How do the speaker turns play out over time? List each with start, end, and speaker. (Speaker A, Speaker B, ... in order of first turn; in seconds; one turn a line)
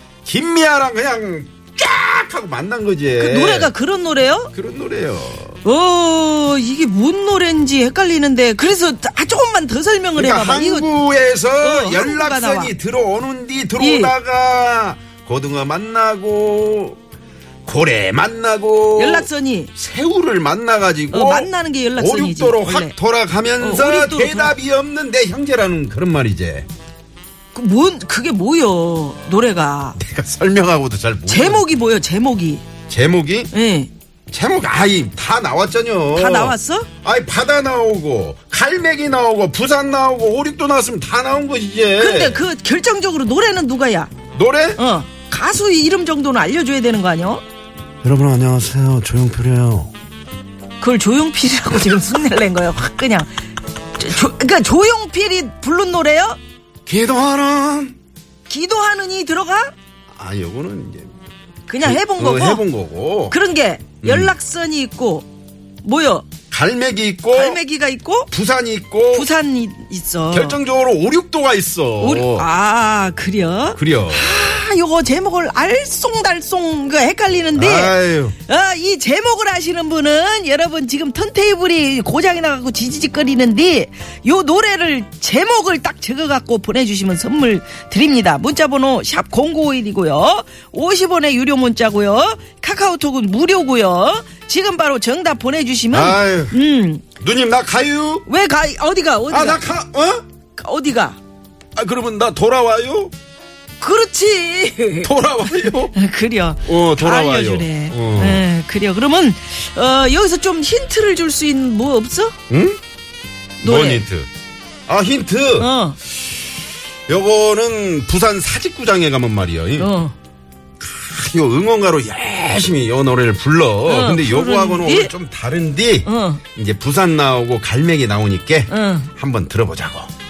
Speaker A: 0.2-3.7
Speaker B: 3.2-4.5
Speaker A: 4.5-5.6
Speaker B: 5.6-10.9
Speaker A: 10.2-17.0
Speaker B: 11.6-12.7
Speaker B: 13.8-14.1
Speaker A: 17.6-26.7
Speaker B: 18.9-19.7
Speaker B: 21.1-22.9
Speaker B: 23.6-24.5
Speaker B: 27.5-30.0
Speaker A: 30.0-31.7
Speaker B: 31.3-32.6
Speaker A: 32.9-33.5
Speaker B: 33.5-33.9
Speaker A: 34.3-42.4
Speaker B: 36.1-36.9
Speaker B: 42.0-44.1
Speaker A: 44.3-44.8
Speaker B: 44.8-47.4
Speaker A: 48.0-49.9
Speaker B: 50.8-53.3
Speaker B: 54.0-56.4
Speaker A: 56.9-57.9
Speaker B: 58.5-59.7
Speaker A: 60.1-61.1
Speaker B: 61.7-62.6
Speaker A: 61.8-63.4
Speaker B: 63.3-65.3
Speaker A: 64.0-64.3
Speaker B: 65.8-66.3
Speaker A: 66.5-67.6
Speaker B: 67.3-68.3
Speaker A: 68.3-69.3
Speaker B: 69.1-70.6
Speaker A: 70.3-72.5
Speaker B: 72.0-97.0
Speaker A: 73.7-74.3
Speaker A: 77.5-78.3
Speaker A: 95.9-96.6
Speaker A: 97.2-98.2
Speaker B: 98.3-99.6
Speaker A: 99.3-100.2
Speaker B: 100.5-101.2
Speaker A: 101.8-103.1
Speaker B: 103.8-112.3
Speaker A: 105.0-106.0
Speaker A: 106.6-108.4
Speaker A: 112.5-112.8
Speaker B: 113.6-114.0
Speaker A: 113.6-114.3
Speaker A: 114.9-115.7
Speaker B: 115.6-116.0
Speaker A: 117.1-119.9
Speaker B: 119.8-120.1
Speaker A: 120.8-130.1
Speaker B: 123.8-125.1
Speaker B: 126.0-126.4
Speaker B: 128.7-129.1